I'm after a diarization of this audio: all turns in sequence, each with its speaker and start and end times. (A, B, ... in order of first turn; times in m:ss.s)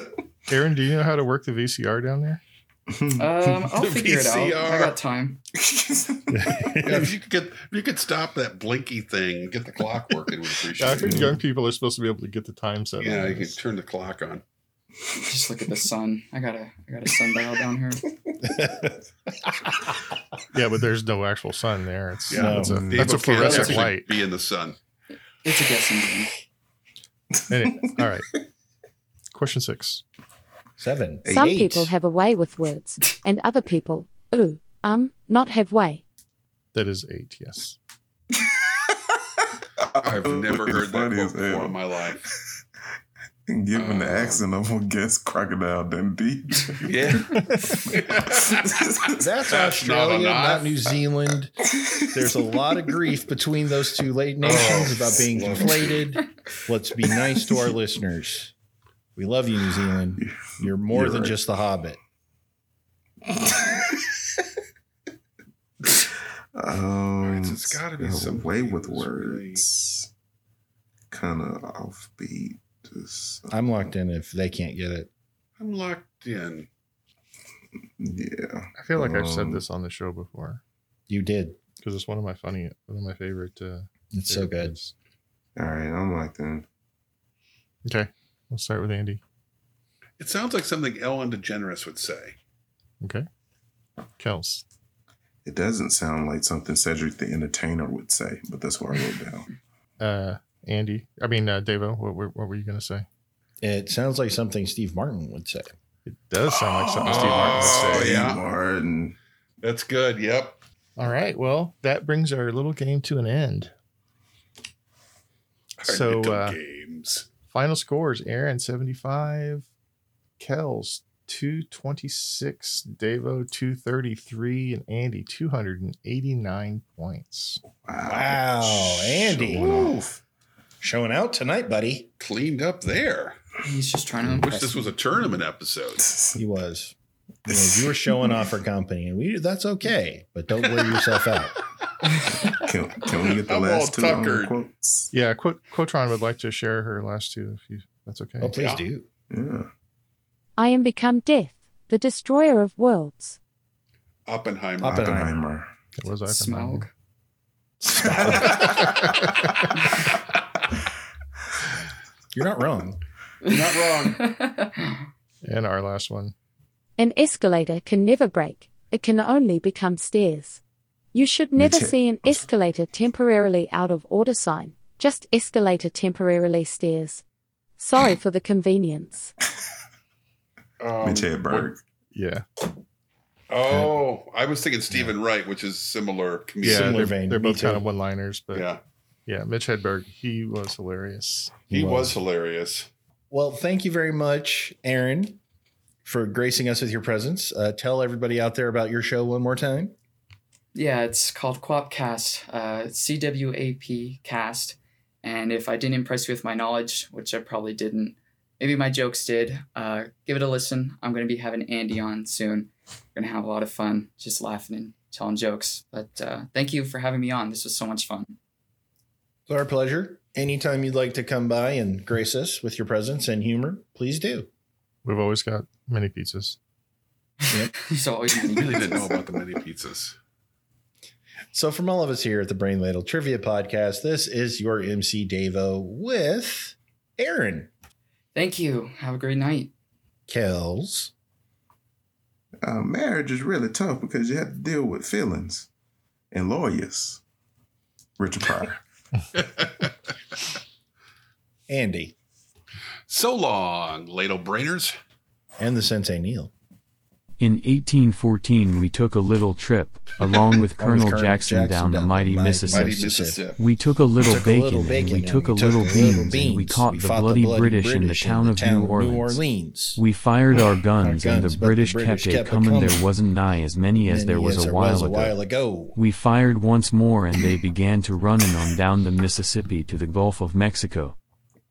0:00.5-0:02.4 A
0:02.9-0:03.7 B
0:03.2-0:05.4 C
0:03.8-0:04.9 D
0:05.5-0:06.8 B
0:06.3-0:07.1 E
0:06.8-0:11.3 D
0:10.8-0:13.6 A
0:11.0-0:11.4 B
0:13.0-0:14.4 D
0:15.1-0:18.0 C
0:18.5-0:18.9 E
0:20.5-0:24.2 A
0:22.3-0:24.8 D
0:22.3-0:22.9 E
0:22.4-0:23.2 B
0:23.4-0:23.8 C
0:25.4-0:26.3 C
0:27.4-0:28.0 B
0:27.5-0:28.3 A
0:29.3-0:30.0 A
0:30.8-0:31.9 E
0:31.3-0:36.0 F
0:36.7-0:37.8 A
0:39.8-0:42.3 B
0:40.0-0:42.3 D
0:43.4-0:49.2 B
0:43.7-0:44.4 D
0:46.8-0:48.9 D
0:47.4-0:47.8 A
0:49.2-0:58.5 E
0:49.5-0:51.0 D
0:51.7-0:52.1 B
0:54.4-0:56.1 D
0:59.2-1:02.0 E
1:00.2-1:01.4 B
1:06.5-1:10.1 B
1:07.2-1:09.6 D
1:11.1-1:13.5 B
1:13.5-1:15.1 E
1:15.6-1:16.7 D
1:18.0-1:19.6 B
1:18.8-1:20.6 A
1:21.1-1:21.6 E
1:21.8-1:24.9 A
1:24.1-1:24.8 E
1:25.6-1:26.6 B
1:27.8-1:29.2 A
1:30.2-1:32.3 D
1:33.0-1:33.3 A
1:34.2-1:34.6 A
1:35.4-1:39.5 B
1:40.0-1:43.0 A
1:43.6-1:45.7 E
1:46.0-1:48.3 A
1:46.9-1:49.1 B
1:47.0-1:48.4 D
1:49.6-1:50.6 D
1:51.0-1:53.7 A
1:55.8-1:57.3 D
1:55.8-1:56.6 A
1:57.5-1:59.7 A
2:00.4-2:07.6 A
2:07.7-2:10.2 B
2:08.0-2:09.9 E
2:10.8-2:12.1 E
2:12.2-2:13.4 D
2:13.6-2:14.9 C
2:14.4-2:16.1 D
2:16.0-2:16.4 B
2:16.4-2:16.9 E
2:17.5-2:21.5 E
2:17.5-2:18.2 B
2:22.3-2:25.1 B
2:23.2-2:24.6 D
2:25.1-2:28.6 A
2:28.4-2:29.1 E
2:28.6-2:28.8 D
2:29.3-2:29.7 B
2:30.6-2:33.4 F
2:34.3-2:35.1 D
2:34.8-2:35.4 E
2:34.8-2:35.7 B
2:36.0-2:36.9 A
2:36.3-2:36.9 C
2:37.8-2:38.9 E
2:38.0-2:39.4 B
2:42.3-2:43.0 E
2:43.4-2:45.0 C
2:43.4-2:44.3 D
2:45.4-2:46.3 A
2:47.0-2:50.6 F
2:51.1-2:57.2 F
2:51.6-2:52.4 B
2:57.8-2:59.3 F
3:00.8-3:01.7 D
3:01.0-3:01.8 B
3:02.1-3:02.4 A
3:03.5-3:07.1 D
3:06.6-3:07.8 E
3:06.6-3:08.7 A
3:08.5-3:08.8 D
3:09.3-3:11.6 A
3:11.7-3:12.2 E
3:11.7-3:12.9 D
3:13.3-3:15.4 E
3:16.0-3:19.9 E
3:20.7-3:38.4 C
3:39.5-3:44.5 E
3:45.0-3:46.6 A
3:47.4-3:49.0 C
3:48.5-3:50.2 D
3:51.5-3:57.7 E
3:58.3-3:59.7 C
4:00.3-4:01.1 E
4:02.6-4:05.7 B
4:06.3-4:07.2 B
4:08.2-4:08.8 B
4:09.4-4:09.9 D
4:11.7-4:12.1 E
4:13.1-4:15.0 D
4:15.6-4:16.5 E
4:17.4-4:35.4 G
4:20.8-4:23.4 E
4:22.6-4:23.6 D
4:24.2-4:30.0 E
4:31.0-4:33.1 E
4:34.1-4:36.0 E
4:36.0-4:41.1 G